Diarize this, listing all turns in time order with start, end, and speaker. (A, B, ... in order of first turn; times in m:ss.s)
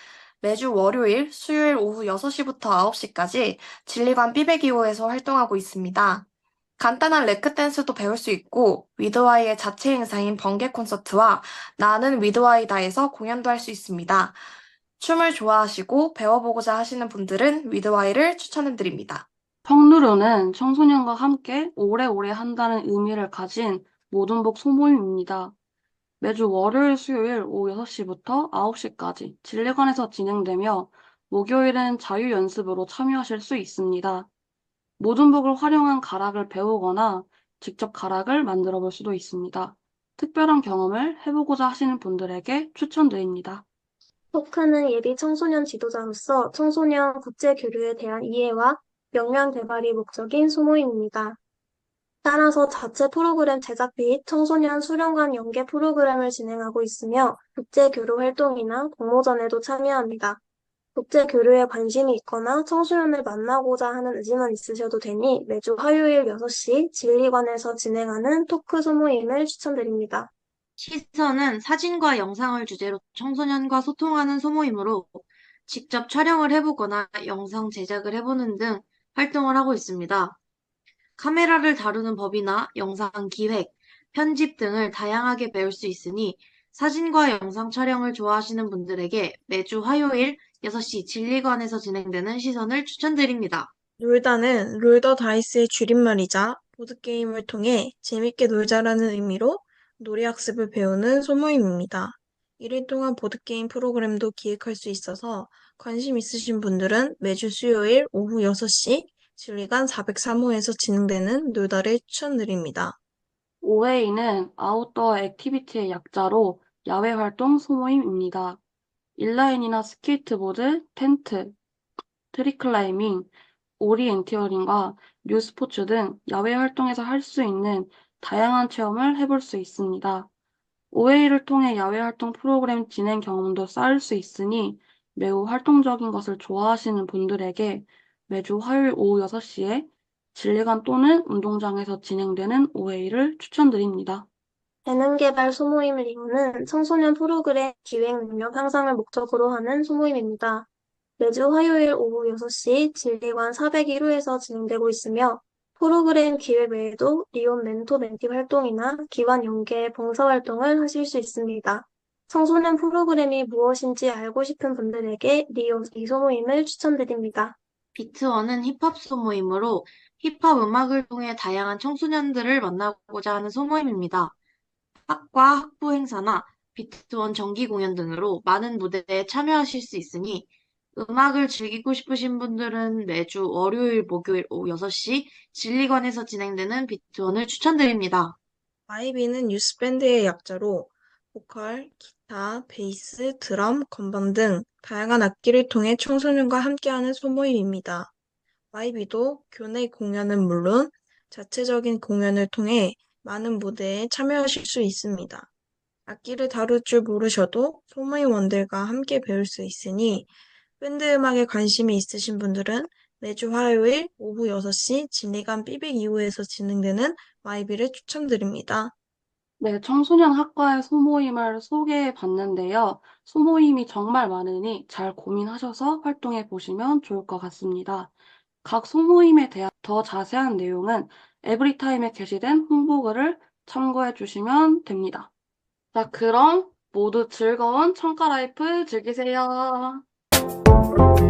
0:00.4-0:06.2 A
0:06.8-0:14.4 A
0:15.0-0:19.3 A
0:19.6-0:25.5 B
0:26.2-0:34.3 B
0:35.0-0:43.6 B
0:44.3-0:51.4 C
0:52.2-1:00.4 C
1:01.0-1:10.3 C
1:10.8-1:20.4 D
1:21.2-1:33.7 D
1:34.0-1:53.0 E
1:53.6-1:58.6 B
1:59.2-2:01.6 B
2:02.3-2:10.3 B
2:10.9-2:24.3 B
2:24.8-2:30.7 C
2:31.2-2:47.6 C
2:48.0-2:54.3 D
2:55.1-3:08.4 D
3:08.9-3:18.1 E
3:18.7-3:25.5 E
3:26.1-3:38.9 E
3:39.6-3:48.1 B
3:48.6-3:55.3 B
3:55.9-4:00.0 B